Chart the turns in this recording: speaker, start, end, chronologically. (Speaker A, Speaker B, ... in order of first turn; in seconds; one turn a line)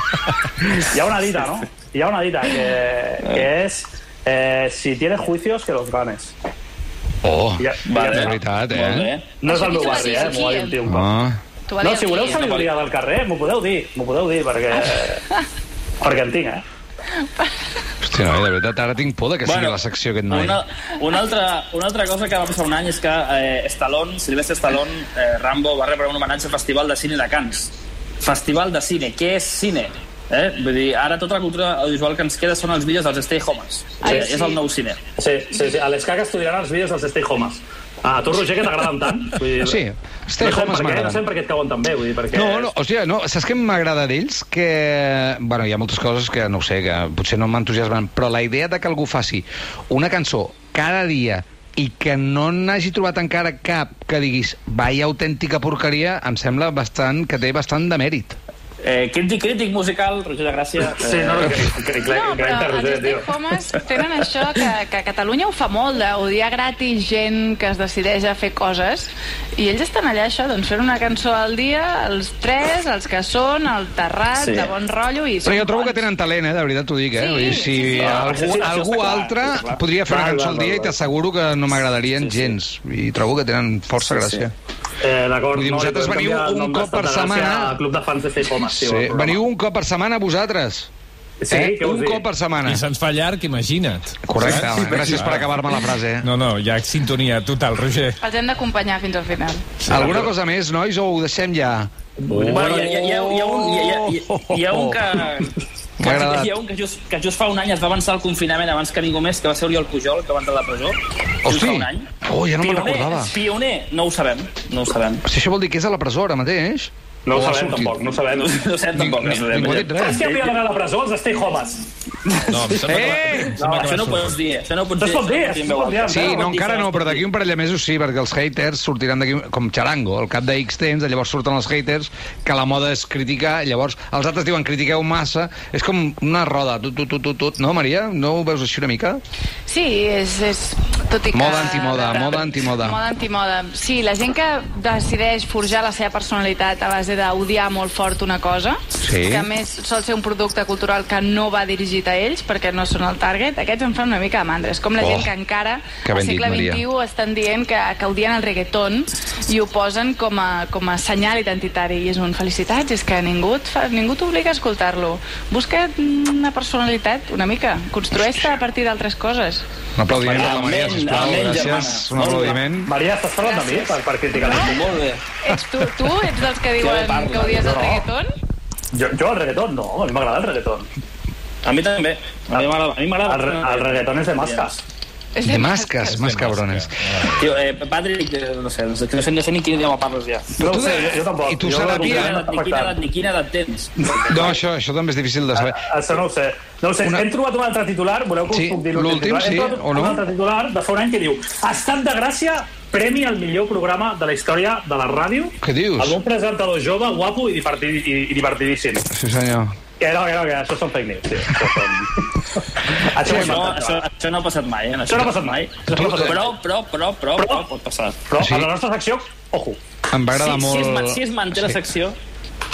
Speaker A: 0.8-6.3
Speaker B: 7.2-9.1
Speaker A: 7.6-8.4
Speaker C: 7.8-10.2
Speaker A: 9.4-11.1
Speaker D: 9.4-10.8
Speaker B: 10.8-11.4
Speaker D: 11.7-12.4
Speaker A: 11.8-15.2
Speaker C: 12.3-12.8
Speaker A: 16.0-16.6
Speaker B: 18.0-20.6
Speaker C: 19.4-35.0
Speaker D: 34.0-34.6
Speaker A: 34.0-34.3
Speaker A: 35.2-39.8
Speaker B: 39.6-41.2
Speaker A: 40.4-42.7
Speaker B: 42.3-58.4
Speaker C: 58.8-61.6
Speaker A: 60.9-63.3
Speaker D: 62.0-76.1
Speaker C: 74.3-74.7
Speaker B: 75.4-84.5
Speaker D: 77.1-78.1
Speaker C: 77.7-79.8
Speaker A: 78.0-78.6
Speaker A: 80.0-81.0
Speaker C: 82.2-82.5
Speaker C: 84.0-84.5
Speaker A: 85.0-89.4
Speaker B: 85.5-87.8
Speaker B: 88.6-90.9
Speaker A: 91.4-92.2
Speaker B: 91.5-92.8
Speaker E: 92.6-95.6
Speaker B: 94.2-96.3
Speaker E: 96.2-98.2
Speaker D: 98.2-99.6
Speaker E: 99.8-100.3
Speaker B: 99.9-105.1
Speaker A: 102.2-103.0
Speaker C: 102.5-112.1
Speaker B: 106.0-106.5
Speaker B: 111.4-113.3
Speaker C: 112.6-115.2
Speaker B: 115.2-118.0
Speaker A: 117.2-118.5
Speaker C: 118.3-120.6
Speaker B: 118.9-120.2
Speaker A: 120.0-122.8
Speaker E: 122.5-124.3
Speaker B: 122.8-123.6
Speaker A: 123.6-124.0
Speaker C: 123.6-127.2
Speaker A: 125.0-126.6
Speaker B: 126.1-139.2
Speaker D: 139.7-169.6
Speaker B: 141.3-143.0
Speaker B: 149.0-149.5
Speaker B: 155.0-155.3
Speaker B: 156.0-156.8
Speaker B: 169.9-172.9
Speaker C: 170.1-172.6
Speaker A: 172.8-174.8
Speaker D: 173.4-174.7
Speaker C: 174.3-175.2
Speaker D: 175.4-178.3
Speaker C: 176.8-177.8
Speaker A: 177.6-178.1
Speaker A: 178.9-180.9
Speaker C: 181.6-184.8
Speaker A: 183.2-184.8
Speaker D: 185.3-186.2
Speaker B: 185.4-186.9
Speaker E: 186.1-187.5
Speaker C: 187.4-190.6
Speaker A: 190.6-193.0
Speaker B: 190.6-192.4
Speaker C: 191.9-194.2
Speaker A: 194.0-194.6
Speaker B: 194.3-195.8
Speaker A: 195.5-209.1
Speaker B: 198.5-200.2
Speaker B: 205.6-206.1
Speaker B: 209.1-209.7
Speaker A: 210.0-214.0
Speaker C: 213.2-218.2
Speaker B: 213.2-213.6
Speaker A: 215.0-216.5
Speaker B: 215.9-216.4
Speaker A: 217.4-217.6
Speaker A: 218.3-219.8
Speaker B: 218.4-218.7
Speaker B: 220.1-221.8
Speaker C: 220.3-222.2